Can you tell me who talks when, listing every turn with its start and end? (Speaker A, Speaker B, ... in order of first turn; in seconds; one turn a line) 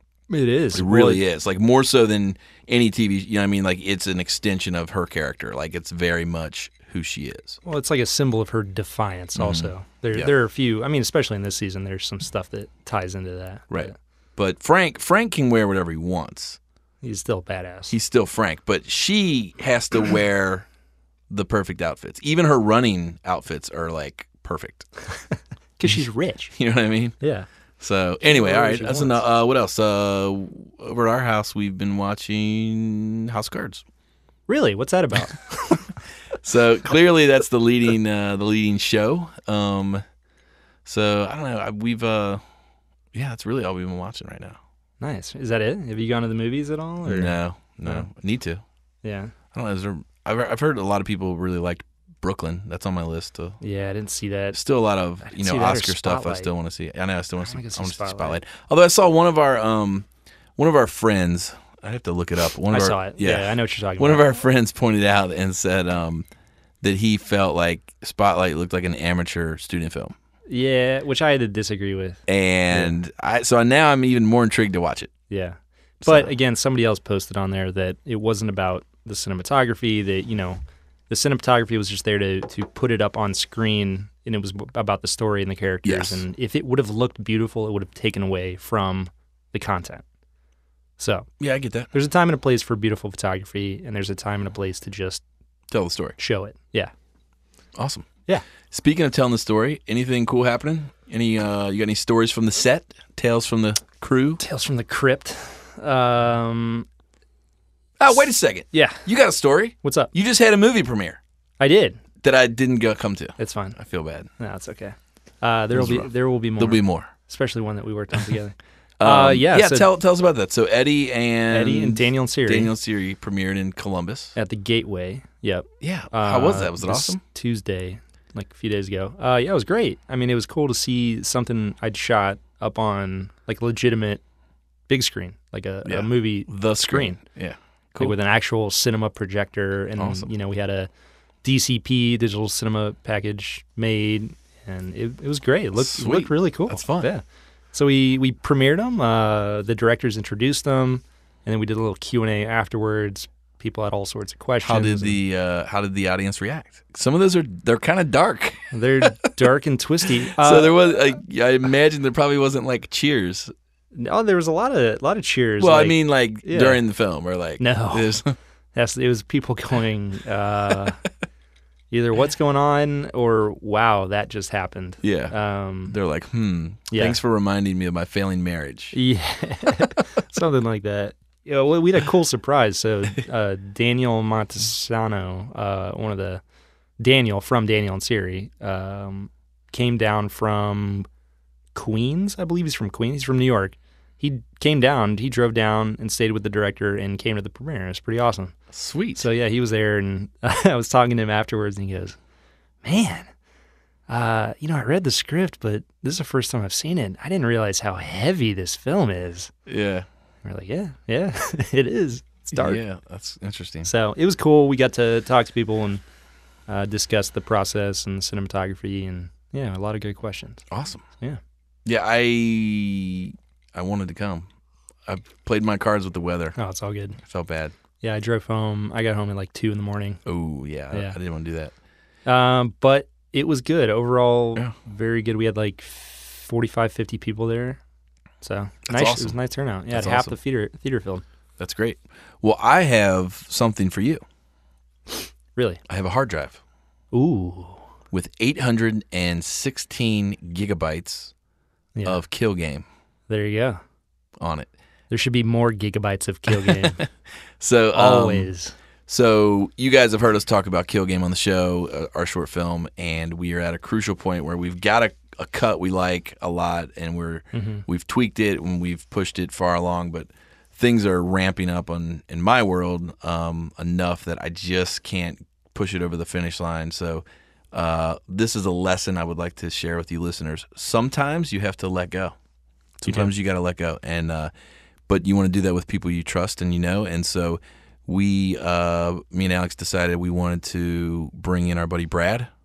Speaker A: 0.3-1.2
Speaker B: 0.7-7.6
Speaker A: 7.6-13.9
Speaker B: 9.3-10.3
Speaker B: 13.7-16.6
Speaker A: 17.0-17.9
Speaker B: 17.9-20.7
Speaker B: 21.3-24.9
Speaker A: 25.3-26.5
Speaker B: 26.5-27.2
Speaker A: 27.2-27.5
Speaker B: 27.8-33.8
Speaker A: 28.2-29.2
Speaker A: 34.5-36.0
Speaker B: 36.4-40.0
Speaker B: 40.8-42.4
Speaker B: 43.1-44.6
Speaker A: 45.0-48.0
Speaker B: 47.0-48.6
Speaker A: 49.0-49.3
Speaker B: 49.5-53.6
Speaker A: 53.6-54.6
Speaker B: 54.5-66.3
Speaker A: 55.2-56.5
Speaker A: 57.4-58.4
Speaker A: 62.7-64.2
Speaker B: 66.8-70.1
Speaker A: 70.5-72.9
Speaker B: 72.3-75.1
Speaker A: 75.3-90.0
Speaker B: 76.0-76.3
Speaker B: 85.8-86.2
Speaker A: 91.0-91.3
Speaker B: 91.4-91.9
Speaker A: 91.9-95.2
Speaker B: 95.7-96.2
Speaker A: 96.2-96.9
Speaker B: 97.7-98.1
Speaker B: 98.6-104.4
Speaker A: 104.4-106.9
Speaker B: 108.0-111.2
Speaker A: 108.7-109.0
Speaker A: 109.8-110.1
Speaker A: 111.6-112.0
Speaker B: 112.2-114.3
Speaker A: 113.4-113.8
Speaker A: 114.4-119.8
Speaker B: 115.7-117.1
Speaker B: 119.0-124.3
Speaker A: 121.5-122.7
Speaker A: 124.3-134.2
Speaker B: 125.8-127.2
Speaker A: 134.9-137.2
Speaker B: 135.8-138.2
Speaker A: 138.0-140.9
Speaker B: 140.0-140.3
Speaker A: 141.4-147.2
Speaker B: 145.8-147.1
Speaker A: 147.7-155.2
Speaker B: 154.6-159.3
Speaker A: 158.7-160.8
Speaker B: 160.2-163.5
Speaker A: 163.9-166.8
Speaker B: 165.6-168.3
Speaker A: 167.6-168.2
Speaker A: 168.7-171.0
Speaker A: 171.9-175.9
Speaker B: 175.0-175.3
Speaker B: 175.9-178.9
Speaker A: 176.9-177.2
Speaker A: 178.9-186.4
Speaker A: 187.0-191.1
Speaker A: 191.7-198.5
Speaker B: 198.7-199.2
Speaker A: 199.2-202.2
Speaker A: 202.8-203.3
Speaker A: 204.1-209.5
Speaker B: 209.7-210.1
Speaker A: 210.4-212.8
Speaker B: 212.5-213.9
Speaker A: 213.8-216.0
Speaker A: 216.7-220.6
Speaker B: 220.7-221.0
Speaker B: 221.8-224.5
Speaker B: 225.0-226.6
Speaker A: 226.6-227.2
Speaker B: 227.2-227.7
Speaker A: 228.0-230.2
Speaker B: 230.2-231.7
Speaker A: 230.9-231.2
Speaker A: 232.2-237.8
Speaker A: 238.4-241.2
Speaker B: 238.9-239.3
Speaker B: 239.9-240.3
Speaker B: 241.6-244.2
Speaker A: 245.6-245.8
Speaker B: 245.9-246.6
Speaker A: 247.1-247.9
Speaker B: 248.1-251.3
Speaker A: 251.9-252.2
Speaker B: 252.0-252.8
Speaker A: 253.3-253.8
Speaker B: 254.4-254.7
Speaker A: 255.1-257.0
Speaker B: 256.5-257.1
Speaker B: 257.6-258.5
Speaker A: 257.9-258.7
Speaker B: 259.1-282.4
Speaker A: 267.5-267.8
Speaker A: 283.0-283.3
Speaker B: 283.0-284.5
Speaker B: 285.1-292.5